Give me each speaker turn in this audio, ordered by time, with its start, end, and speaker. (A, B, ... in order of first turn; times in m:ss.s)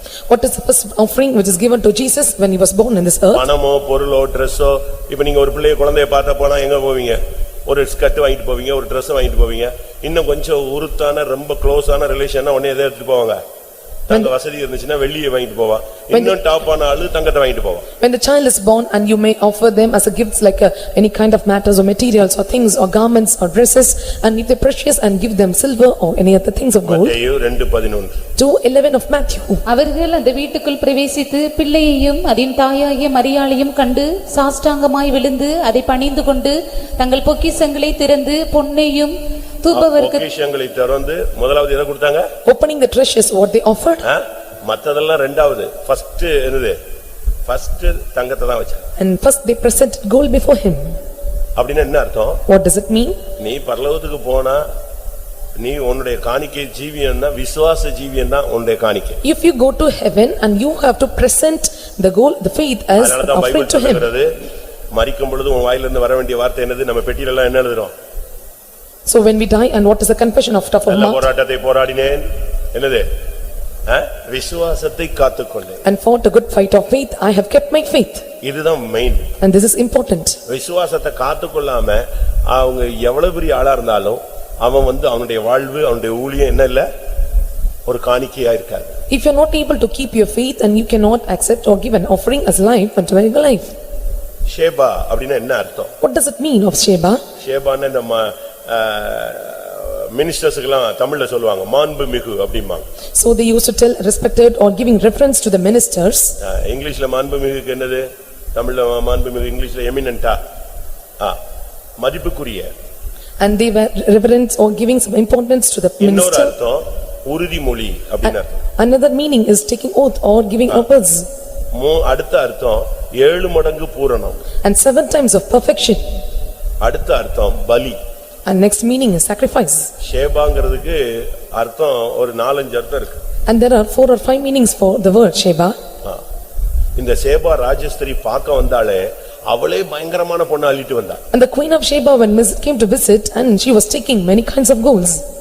0:00.3-0:03.5 A
0:03.3-0:13.4 B
0:14.1-0:17.9 B
0:16.1-0:16.4 A
0:18.0-0:27.2 A
0:26.9-0:28.2 B
0:28.4-0:29.6 A
0:29.7-0:40.2 C
0:39.7-0:42.3 B
0:42.5-0:44.0 A
0:44.0-0:46.8 B
0:47.5-0:48.8 B
0:49.0-0:51.0 A
0:51.6-0:52.4 B
0:52.5-0:53.2 A
0:53.4-0:54.6 B
0:55.6-0:59.2 B
0:59.2-1:04.1 A
1:03.0-1:04.3 B
1:04.9-1:07.9 B
1:09.1-1:11.3 A
1:10.9-1:13.1 B
1:13.9-1:15.8 B
1:15.8-1:18.2 A
1:18.4-1:19.3 B
1:19.4-1:20.4 A
1:20.5-1:26.9 B
1:27.9-1:28.9 B
1:29.1-1:33.8 A
1:34.5-1:35.9 B
1:36.0-1:37.2 A
1:37.4-1:42.8 B
1:43.2-1:46.4 A
1:46.4-1:50.4 B
1:52.0-1:52.7 B
1:53.4-1:56.6 A
1:56.0-1:58.6 B
1:58.2-2:01.3 A
2:01.7-2:04.4 B
2:04.6-2:06.0 A
2:06.8-2:08.0 B
2:08.5-2:09.9 A
2:10.0-2:13.2 B
2:13.5-2:15.8 A
2:17.0-2:21.2 B
2:21.3-2:25.2 A